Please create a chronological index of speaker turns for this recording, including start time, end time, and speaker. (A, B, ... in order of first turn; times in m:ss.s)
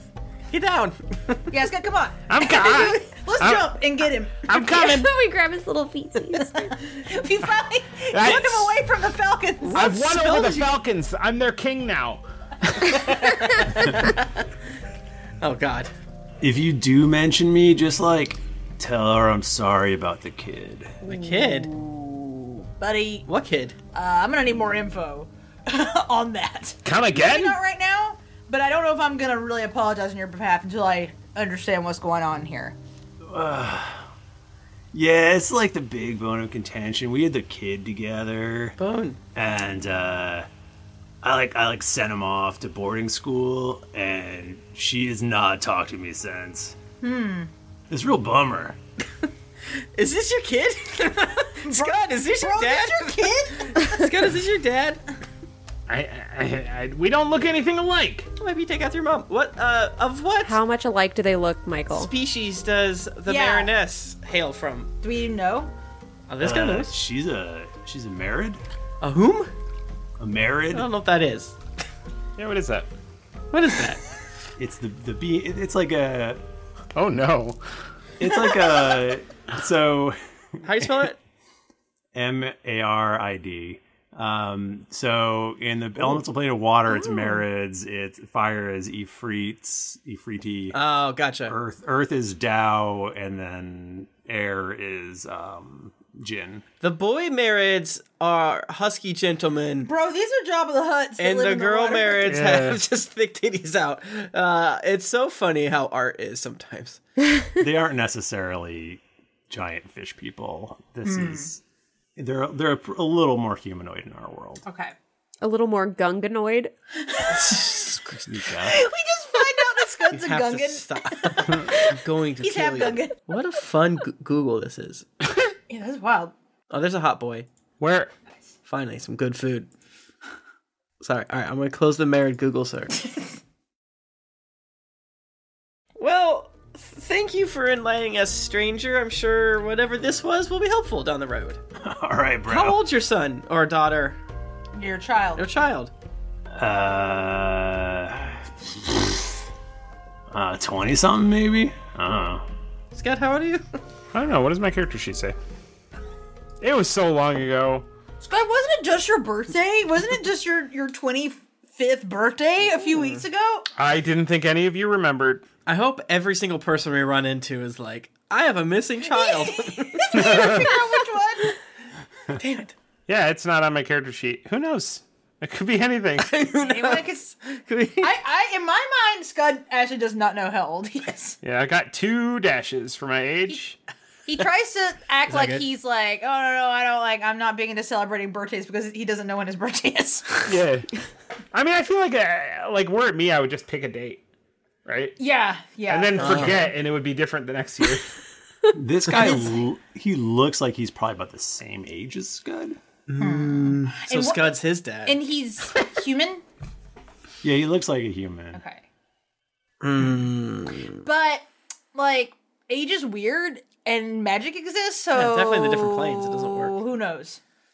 0:00.5-0:01.4 A
0:01.5-0:04.5 B
0:02.3-0:03.8 C
0:04.5-0:05.1 C
0:04.5-0:06.8 D
0:06.4-0:09.9 B
0:08.1-0:08.8 C
0:09.6-0:10.8 A
0:09.7-0:14.0 C
0:15.4-0:15.9 A
0:16.4-0:21.0 E
0:21.0-0:21.7 A
0:21.7-0:23.3 B
0:23.3-0:23.8 A
0:23.9-0:32.8 B
0:26.8-0:27.6 C
0:33.2-0:34.1 E
0:34.9-0:38.8 E
0:38.8-0:39.2 A
0:39.4-0:40.5 E
0:41.2-0:46.8 E
0:47.0-0:47.5 B
0:47.9-0:48.8 E
0:50.0-0:55.0 A
0:51.6-0:53.8 B
0:55.9-0:58.3 C
0:58.4-1:00.6 A
1:00.4-1:02.1 D
1:01.9-1:04.9 A
1:03.3-1:03.7 B
1:05.0-1:05.7 B
1:06.3-1:06.9 A
1:06.4-1:08.6 E
1:09.0-1:09.5 A
1:10.2-1:10.9 E
1:10.7-1:11.6 A
1:12.4-1:12.9 C
1:13.5-1:14.0 A
1:14.6-1:16.4 E
1:17.0-1:17.6 C
1:18.2-1:20.2 E
1:20.6-1:21.2 A
1:22.1-1:30.8 E
1:27.0-1:27.3 D
1:30.7-1:31.6 A
1:31.5-1:36.6 E
1:36.8-1:39.9 A
1:39.8-1:42.4 B
1:41.2-1:47.0 A
1:42.2-1:42.8 C
1:47.6-1:51.6 E
1:51.0-1:51.5 B
1:52.2-1:54.6 E
1:54.6-1:54.9 B
1:55.4-1:56.7 D
1:57.1-1:57.8 B
1:57.3-1:58.3 A
1:58.3-1:58.8 E
1:58.7-2:01.6 B
2:00.1-2:05.1 A
2:02.4-2:03.2 B
2:05.7-2:06.3 B
2:06.7-2:07.5 A
2:07.8-2:08.1 C
2:08.7-2:09.7 A
2:11.0-2:13.1 A
2:16.0-2:21.6 A
2:21.8-2:22.8 E
2:22.5-2:24.2 A
2:24.8-2:25.4 B
2:25.4-2:25.9 A
2:26.6-2:29.4 E
2:30.3-2:32.5 E
2:32.9-2:33.6 A
2:34.1-2:35.4 C
2:36.6-2:37.9 C
2:38.2-2:43.7 B
2:42.9-2:43.2 A
2:43.8-2:45.4 C
2:45.7-2:50.6 A
2:49.1-2:51.6 B
2:50.1-2:50.7 C
2:52.4-2:52.7 A
2:53.1-2:56.4 C
2:56.2-2:58.1 A
2:56.6-2:57.4 B
2:58.0-3:01.4 B
3:01.4-3:03.8 C
3:04.3-3:10.5 B
3:05.3-3:05.6 A
3:10.5-3:10.9 C
3:11.5-3:14.2 C
3:14.8-3:15.2 C
3:15.2-3:16.6 B
3:15.9-3:18.1 C
3:16.2-3:16.7 A
3:18.7-3:22.8 E
3:19.2-3:19.5 B
3:23.1-3:25.2 A
3:23.2-3:24.5 B
3:25.0-3:26.4 B
3:27.4-3:28.6 E
3:28.5-3:28.8 B
3:29.8-3:31.0 A
3:31.0-3:37.4 B
3:35.1-3:36.8 A